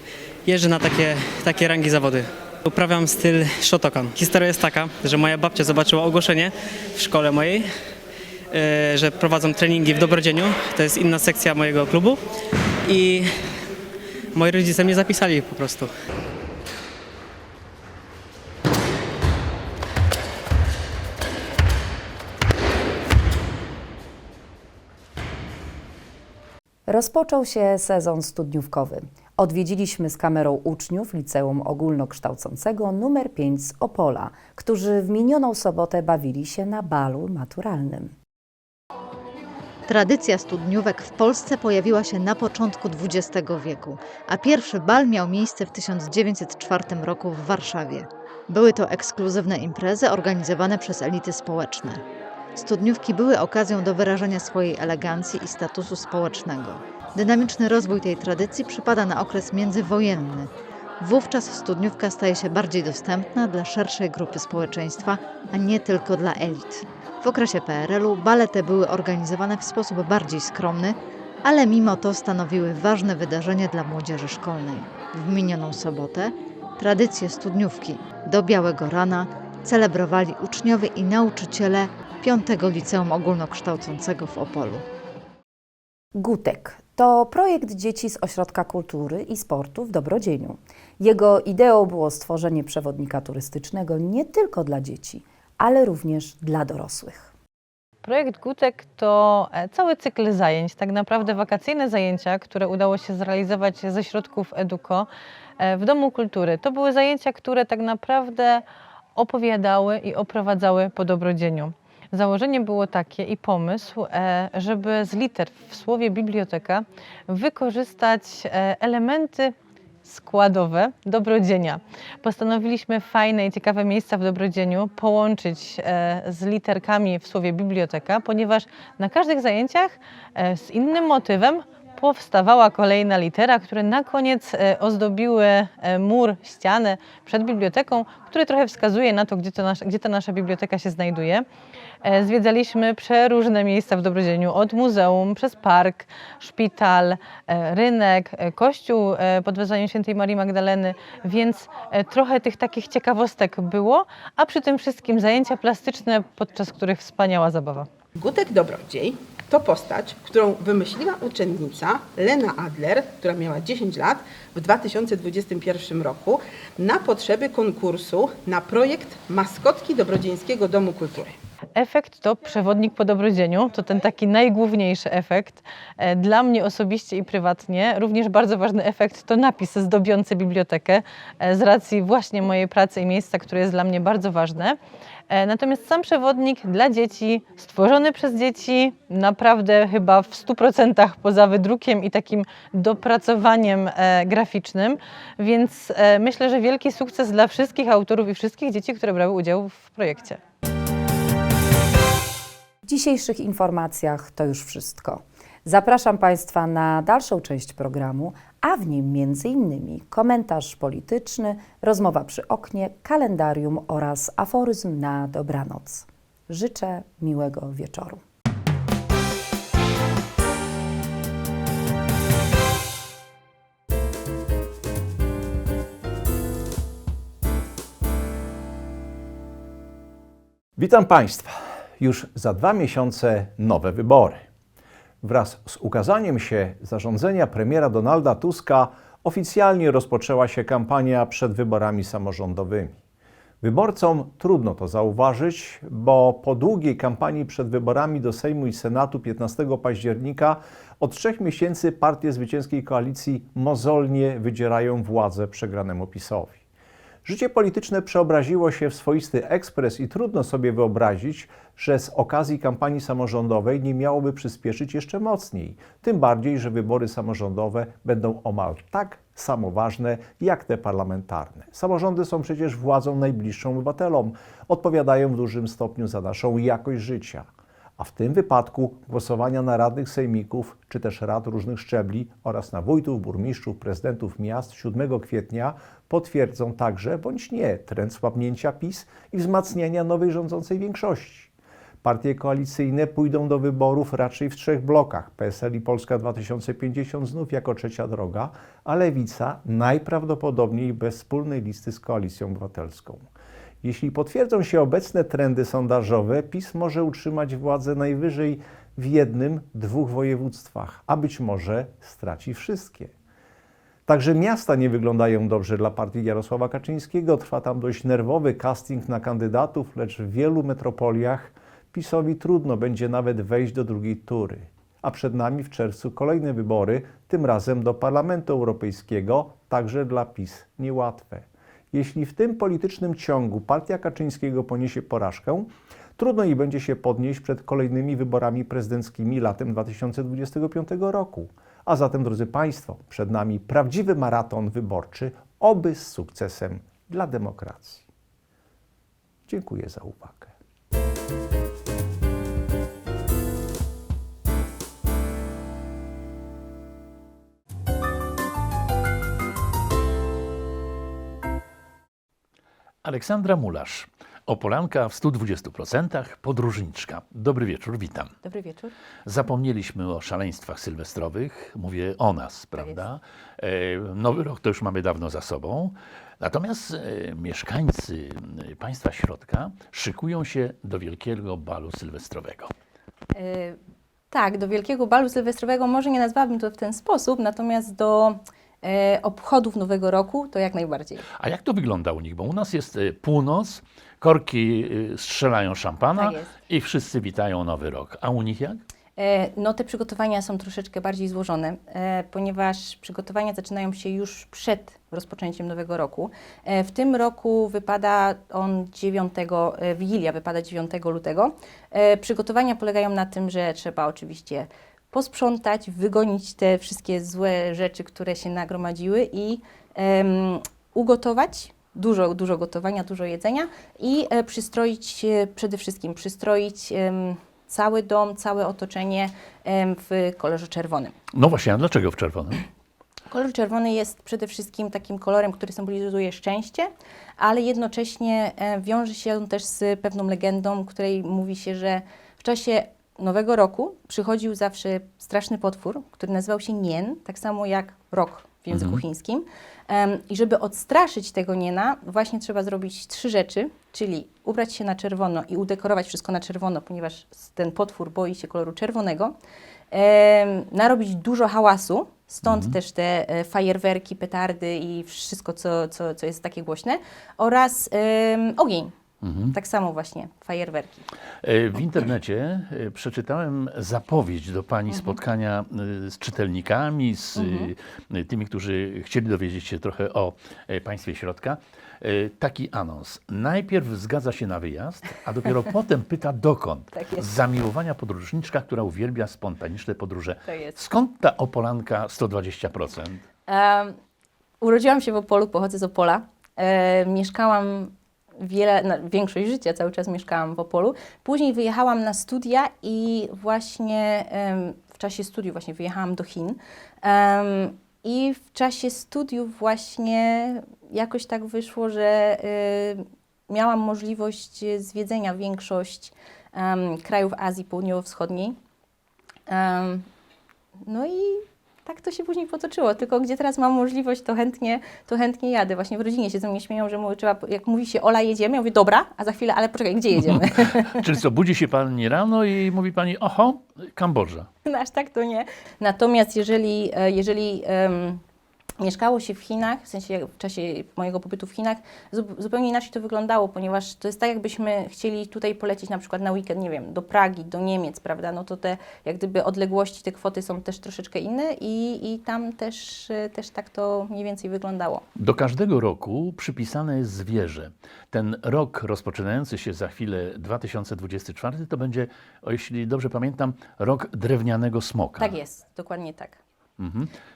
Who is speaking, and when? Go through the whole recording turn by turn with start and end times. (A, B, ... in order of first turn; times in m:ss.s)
0:00.4-0:07.7 A
0:08.5-0:12.2 A
0:12.8-0:13.3 A
0:14.3-0:15.9 A
0:26.9-0:38.1 B
0:39.9-0:52.0 C
0:52.6-1:24.8 C
1:26.1-1:37.3 B
1:38.0-1:45.1 D
1:45.6-1:48.6 D
1:49.2-1:59.5 D
2:00.0-2:21.4 D
2:22.0-2:37.9 D
2:38.2-2:51.4 E
2:51.8-3:04.8 D
3:05.3-3:20.4 D
3:22.8-3:38.2 B
3:50.8-3:54.4 F
3:55.2-4:03.0 F
4:03.6-4:16.6 F
4:17.2-4:51.5 F
4:52.0-5:03.2 F
5:03.8-5:13.1 F
5:14.0-5:48.0 F
5:49.5-5:50.5 F
6:03.0-6:08.3 G
6:08.4-6:08.9 H
6:09.2-6:22.7 G
6:12.7-6:13.0 H
6:23.3-6:23.8 H
6:24.3-6:31.2 H
6:31.4-6:38.8 G
6:36.2-6:36.5 H
6:39.2-7:11.1 H
7:11.3-7:12.6 G
7:13.3-7:39.3 H
7:28.7-7:29.0 G
7:39.9-7:48.9 H
7:42.4-7:42.8 G
7:49.2-7:49.6 G
7:49.5-7:51.1 H
7:51.4-8:13.2 G
7:54.9-7:55.2 H
7:57.4-7:57.7 H
8:06.9-8:07.2 H
8:10.4-8:10.8 H
8:13.5-8:14.0 H
8:14.6-8:38.6 H
8:39.5-8:40.1 H
8:40.8-8:51.0 H
8:50.3-8:54.5 G
8:54.6-8:58.2 H
8:58.8-9:15.0 H
9:15.2-9:25.3 G
9:25.2-9:26.4 H
9:26.8-9:27.1 G